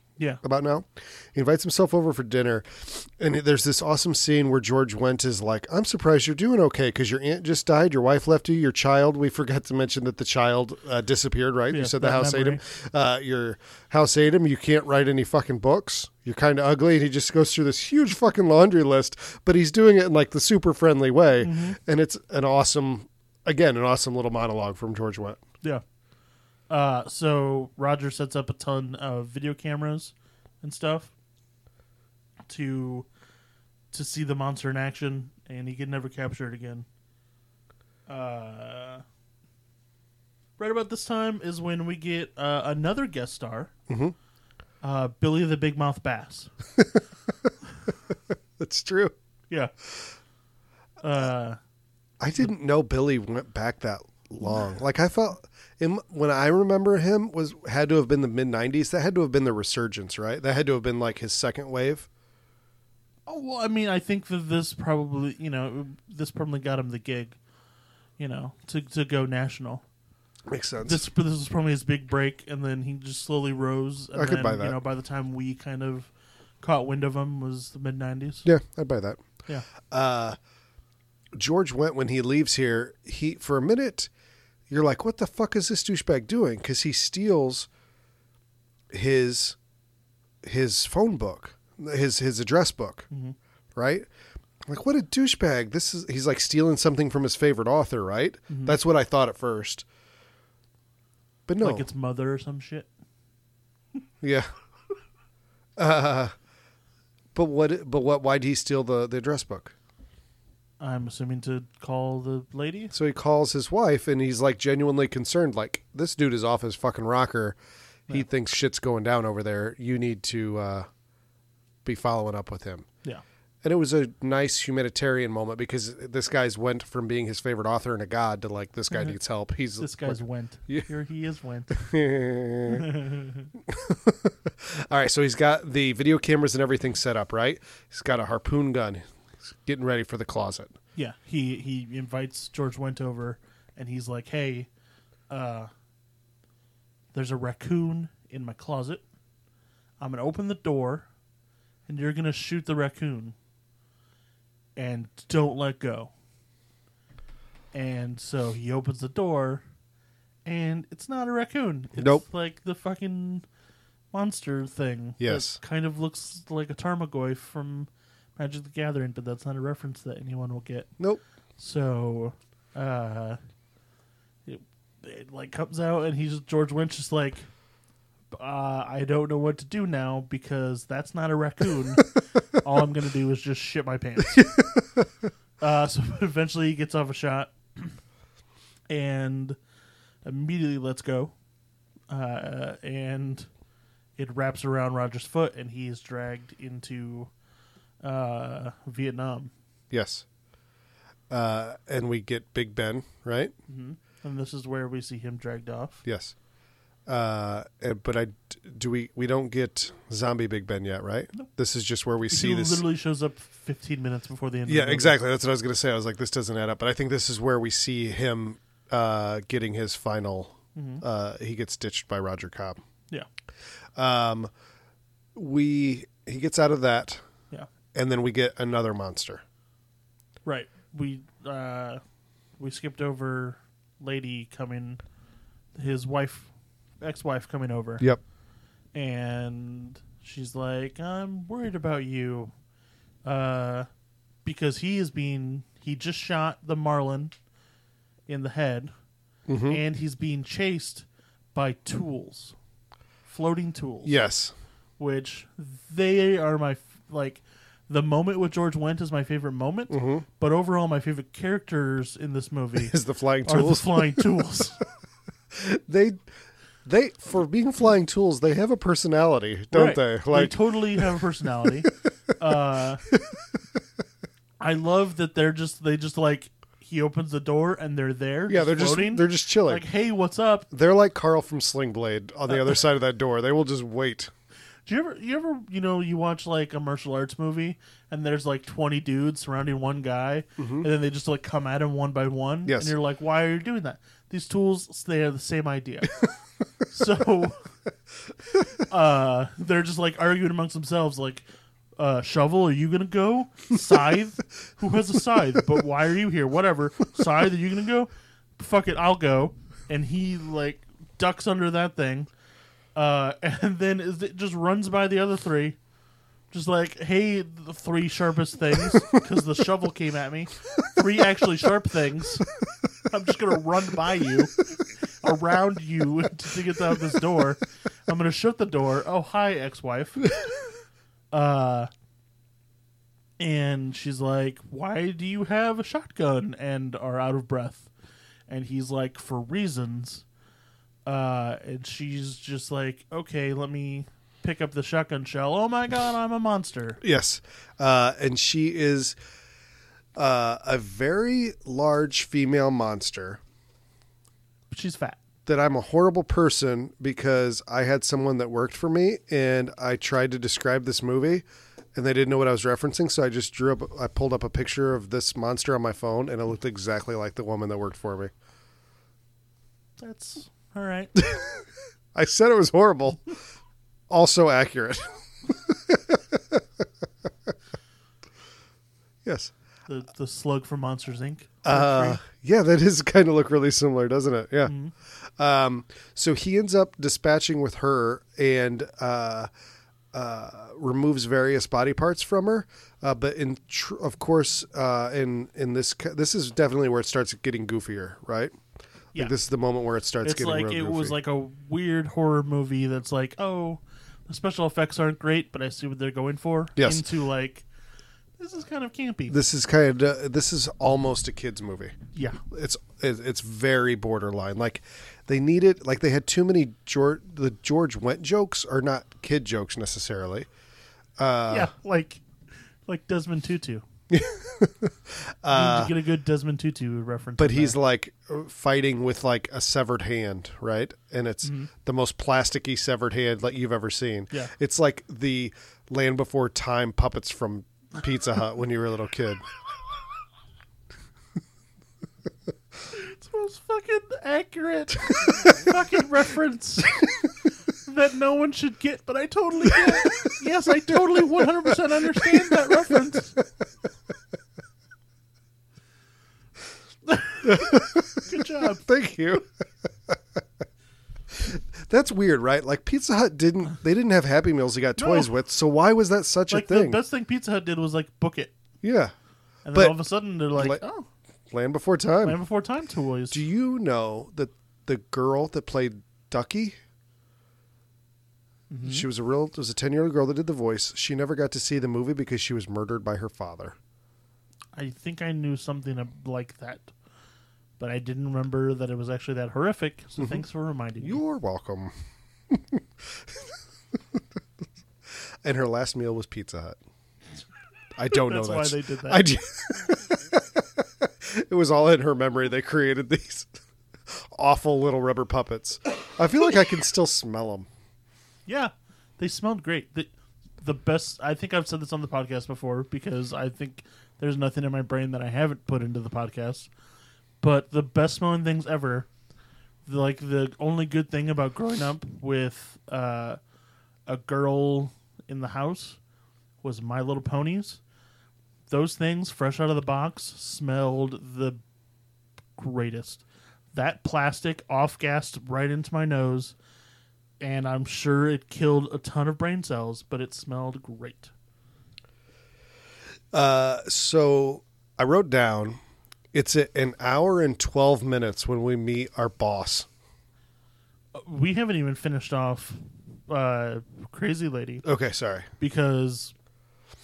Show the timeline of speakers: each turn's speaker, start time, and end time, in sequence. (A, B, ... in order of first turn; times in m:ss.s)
0:00.4-0:25.4 A
0:11.7-0:12.6 B
0:21.4-0:21.8 B
0:26.7-0:31.1 B
0:32.5-0:33.1 B
0:33.9-0:36.9 B
0:38.1-0:39.0 B
0:40.6-0:43.7 B
0:43.9-0:44.2 A
0:44.8-0:46.5 B
0:47.4-0:49.1 A
0:51.0-0:51.6 B
0:52.2-1:02.1 A
1:03.3-1:07.4 B
1:08.2-1:09.8 B
1:10.5-1:11.0 A
1:10.8-1:16.1 B
1:14.2-1:14.8 A
1:16.6-1:18.5 B
1:18.4-1:19.2 A
1:19.8-1:20.4 A
1:21.4-1:24.1 A
1:24.7-1:27.7 A
1:28.9-1:29.6 A
1:30.4-1:33.1 A
1:33.8-1:34.1 A
1:34.7-1:39.9 A
1:38.5-1:38.8 B
1:41.5-1:41.9 A
1:41.6-1:42.9 B
1:44.2-1:44.5 A
1:45.8-1:46.3 A
1:47.4-1:49.7 A
1:50.8-1:52.9 B
1:52.9-1:57.6 A
1:58.1-2:00.9 A
2:01.8-2:02.9 A
2:03.6-2:10.9 A
2:09.8-2:11.9 B
2:11.7-2:13.0 A
2:12.7-2:13.5 B
2:13.7-2:20.7 A
2:21.0-2:24.7 B
2:25.3-2:25.7 B
2:27.1-2:29.0 B
2:30.0-2:31.1 B
2:31.9-2:33.4 B
2:34.8-2:36.1 B
2:37.7-2:39.6 B
2:40.4-2:43.4 B
2:42.0-2:42.2 A
2:44.1-2:50.9 B
2:45.2-2:45.6 A
2:51.6-2:53.4 B
2:54.5-2:57.5 B
2:58.3-3:04.5 B
3:04.3-3:05.0 A
3:05.6-3:08.0 B
3:08.9-3:09.6 B
3:10.2-3:11.3 B
3:12.1-3:13.5 B
3:14.2-3:17.3 B
3:18.0-3:19.5 B
3:19.9-3:20.2 A
3:21.3-3:23.5 A
3:23.7-3:26.0 B
3:26.0-3:26.4 A
3:27.1-3:32.8 A
3:32.3-3:35.2 B
3:34.7-3:42.8 A
3:40.8-3:41.0 B
3:44.0-3:44.5 A
3:45.4-3:47.2 A
3:47.9-3:49.4 A
3:50.4-3:52.0 B
3:52.6-3:55.0 B
3:55.8-3:58.1 B
3:58.9-4:02.5 B
4:03.2-4:03.9 B
4:04.4-4:07.4 B
4:08.3-4:08.9 B
4:09.5-4:09.8 A
4:09.7-4:12.6 B
4:13.3-4:14.2 B
4:14.0-4:14.5 A
4:15.0-4:22.9 B
4:19.9-4:20.2 A
4:22.9-4:24.4 A
4:23.5-4:24.8 B
4:25.5-4:26.2 A
4:26.8-4:31.1 A
4:29.7-4:33.0 B
4:33.1-4:33.4 A
4:34.6-4:40.7 B
4:38.5-4:39.8 A
4:40.7-4:44.3 A
4:44.9-4:56.3 B
4:50.6-4:50.9 A
4:52.7-4:52.9 A
4:56.9-4:57.6 B
4:58.8-5:01.4 B
5:02.0-5:12.3 B
5:13.0-5:15.8 B
5:16.5-5:22.5 B
5:23.1-5:30.3 B
5:31.3-5:31.9 B
5:33.4-5:37.9 B
5:38.5-5:40.2 B
5:41.1-5:47.0 B
5:47.0-5:49.2 A
5:50.2-5:53.4 A
5:54.7-5:55.2 B
5:55.5-6:01.4 A
6:02.0-6:08.3 A
6:10.0-6:11.1 B
6:11.2-6:11.6 A
6:12.1-6:13.2 A
6:14.1-6:16.8 A
6:19.2-6:19.5 A
6:19.9-6:22.2 B
6:21.6-6:29.5 A
6:24.7-6:24.9 B
6:30.1-6:38.6 A
6:39.2-6:41.2 A
6:40.2-6:47.7 B
6:46.8-6:47.0 A
6:48.4-6:49.4 B
6:49.3-6:52.0 A
6:52.1-6:52.4 B
6:52.5-7:00.5 A
7:01.2-7:01.7 A
7:01.5-7:02.2 B
7:02.9-7:03.8 B
7:04.1-7:05.9 A
7:05.5-7:07.8 B
7:07.4-7:19.4 A
7:11.4-7:11.7 B
7:22.9-7:27.1 B
7:27.7-7:33.4 B
7:29.9-7:30.3 A
7:32.2-7:33.5 A
7:37.1-7:38.8 B
7:37.4-7:39.4 A
7:41.3-7:47.0 A
7:45.0-7:45.3 B
7:46.5-7:48.5 B
7:48.8-7:49.1 A
7:49.6-7:51.0 B
7:50.6-7:50.9 A
7:51.5-7:52.4 A
7:52.2-7:53.4 B
7:53.3-7:56.8 A
7:58.7-7:59.1 B
7:58.8-8:03.8 A
8:04.8-8:06.9 B
8:07.8-8:11.2 B
8:11.0-8:11.9 A
8:12.5-8:13.4 A
8:15.4-8:16.8 A
8:18.0-8:23.5 A
8:18.1-8:19.3 B
8:24.1-8:27.7 A
8:28.5-8:30.1 B
8:30.6-8:36.7 B
8:37.4-8:39.1 B
8:39.9-8:43.4 B
8:44.1-8:46.0 B
8:46.6-8:47.8 B
8:48.7-8:51.6 B
8:52.6-8:56.6 B
8:57.4-9:01.3 B
9:03.3-9:05.8 A
9:06.3-9:09.9 A
9:11.1-9:14.8 B
9:14.8-9:15.5 A
9:15.6-9:16.3 B